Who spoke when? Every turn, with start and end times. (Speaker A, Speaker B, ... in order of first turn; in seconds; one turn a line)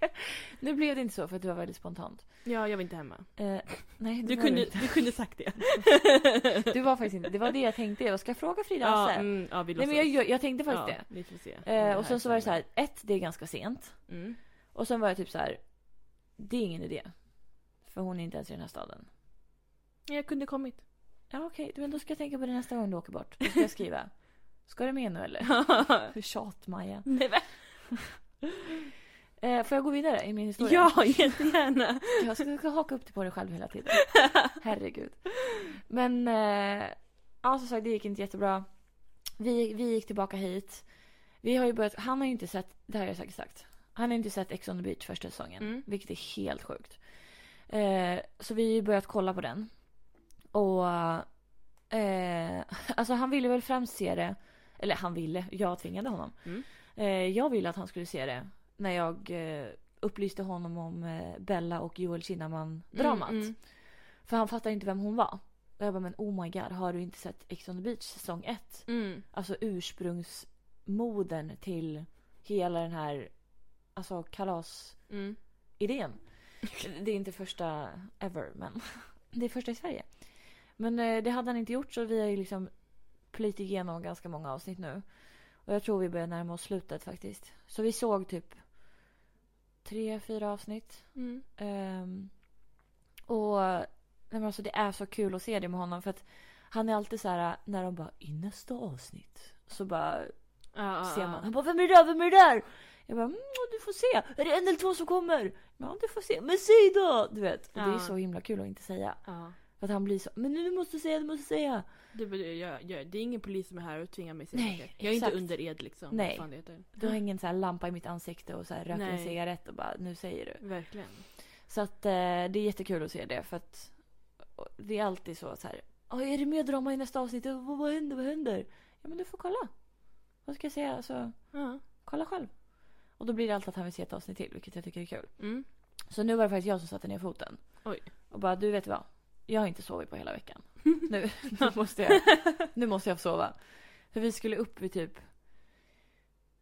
Speaker A: 0.6-2.5
Speaker B: 2.4-6.7
Speaker A: 3.4-5.2
Speaker A: 6.6-14.2
Speaker B: 8.8-12.6
Speaker B: 14.1-14.4
Speaker A: 14.7-17.3
Speaker A: 17.8-19.1
Speaker B: 20.1-20.8
Speaker A: 21.3-27.7
Speaker B: 25.4-26.1
Speaker B: 27.1-27.6
Speaker A: 29.4-31.4
Speaker B: 30.6-32.4
Speaker A: 32.2-50.0
Speaker B: 45.6-45.9
Speaker A: 50.5-75.2
Speaker B: 62.9-63.6
Speaker B: 68.9-69.2
Speaker B: 75.1-75.4
Speaker A: 75.8-89.0
Speaker A: 89.8-92.4
Speaker B: 91.1-91.4
Speaker A: 93.3-111.8
Speaker B: 100.7-101.5
Speaker B: 107.7-108.2
Speaker B: 109.2-109.6
Speaker B: 112.1-117.2
Speaker A: 114.5-145.3
Speaker B: 118.9-119.4
Speaker B: 120.6-121.2
Speaker B: 131.5-131.8
Speaker B: 135.4-135.7
Speaker B: 137.8-138.1